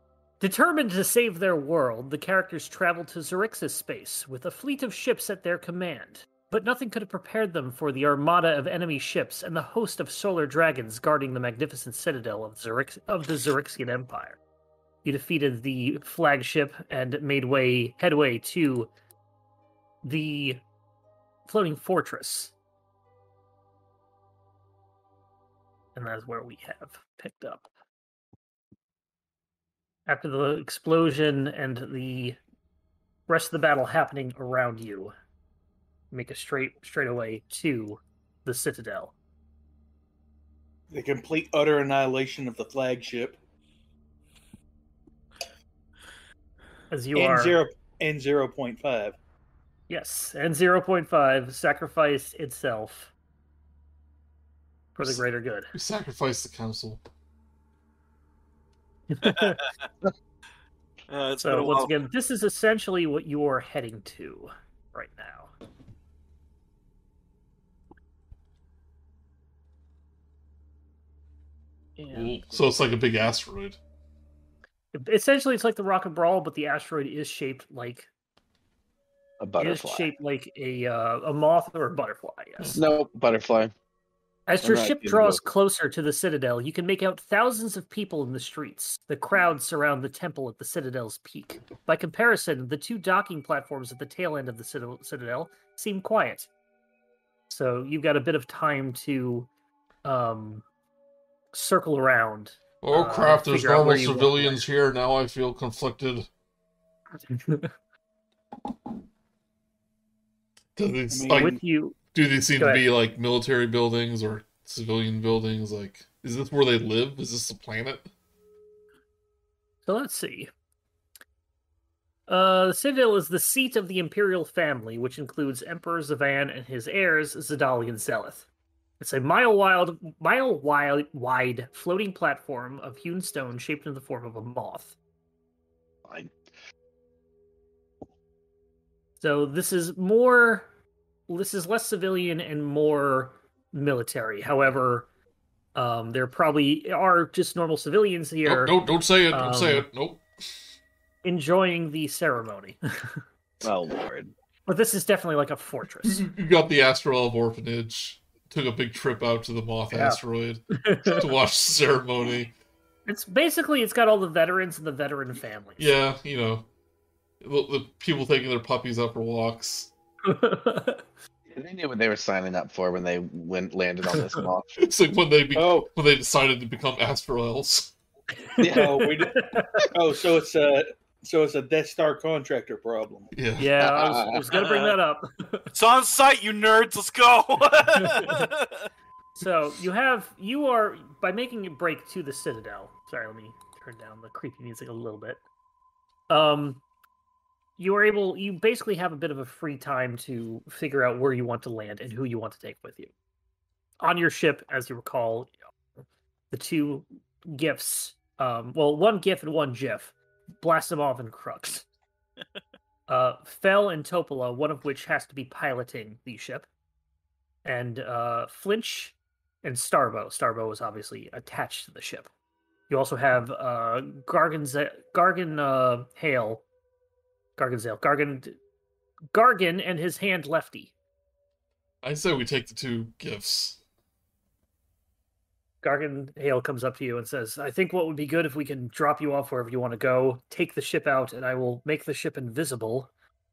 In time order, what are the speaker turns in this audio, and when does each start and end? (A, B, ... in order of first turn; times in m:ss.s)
0:00.4-0:14.4 A
0:15.0-0:18.9 A
0:20.0-0:20.6 A
0:21.5-0:22.5 A
0:25.9-0:27.7 A
0:30.1-0:32.4 A
0:33.3-0:35.1 A
0:36.1-0:39.1 A
0:40.9-0:43.4 B
0:46.9-0:47.6 A
0:47.1-0:49.1 B
0:49.9-0:53.1 A
0:54.9-0:55.7 A
0:55.7-0:57.0 C
0:59.1-0:59.6 A
0:59.2-0:59.5 D
1:01.1-1:01.9 D
1:01.4-1:05.5 A
1:12.0-1:12.6 A
1:12.1-1:13.8 C
1:14.9-1:18.1 A
1:19.4-1:20.0 E
1:19.6-1:22.8 A
1:22.7-1:23.7 E
1:24.5-1:36.5 A
1:24.6-1:25.4 E
1:37.5-1:39.5 A
1:40.0-1:40.6 A
1:41.5-1:44.6 A
1:42.8-1:46.3 C
1:47.3-1:47.7 A
1:50.8-1:51.6 C
1:51.1-1:51.5 B
1:51.3-1:52.0 A
1:52.1-1:58.1 C
1:52.6-1:52.8 A
1:59.8-2:00.5 A
2:02.3-2:08.5 A
2:09.0-2:15.0 A
2:16.0-2:16.3 E
2:19.2-2:20.7 A
2:21.3-2:25.1 A
2:25.7-2:28.8 A
2:28.4-2:30.2 C
2:29.3-2:29.9 A
2:31.2-2:33.2 A
2:33.6-2:34.3 E
2:34.6-2:36.2 A
2:36.0-2:42.5 C
2:39.9-2:40.2 A
2:40.7-2:41.2 A
2:43.1-2:45.9 A
2:45.8-2:46.7 C
2:47.4-2:49.9 C
2:50.2-2:51.0 A
2:51.5-2:54.7 E
2:54.8-2:57.9 C
2:55.5-2:55.9 B
2:58.5-2:59.8 A
2:58.6-3:03.3 B
3:03.3-3:03.8 C
3:03.6-3:05.7 A
3:03.8-3:04.5 E
3:05.7-3:08.7 D
3:08.1-3:08.4 A
3:09.4-3:15.4 A
3:16.3-3:16.8 A
3:17.8-3:23.1 A
3:24.0-3:25.5 A
3:26.5-3:31.8 A
3:33.1-3:36.7 A
3:37.6-3:42.3 A
3:42.9-3:46.6 A
3:47.6-3:48.6 A
3:49.3-3:50.9 A
3:52.0-3:53.8 C
3:55.8-4:03.1 A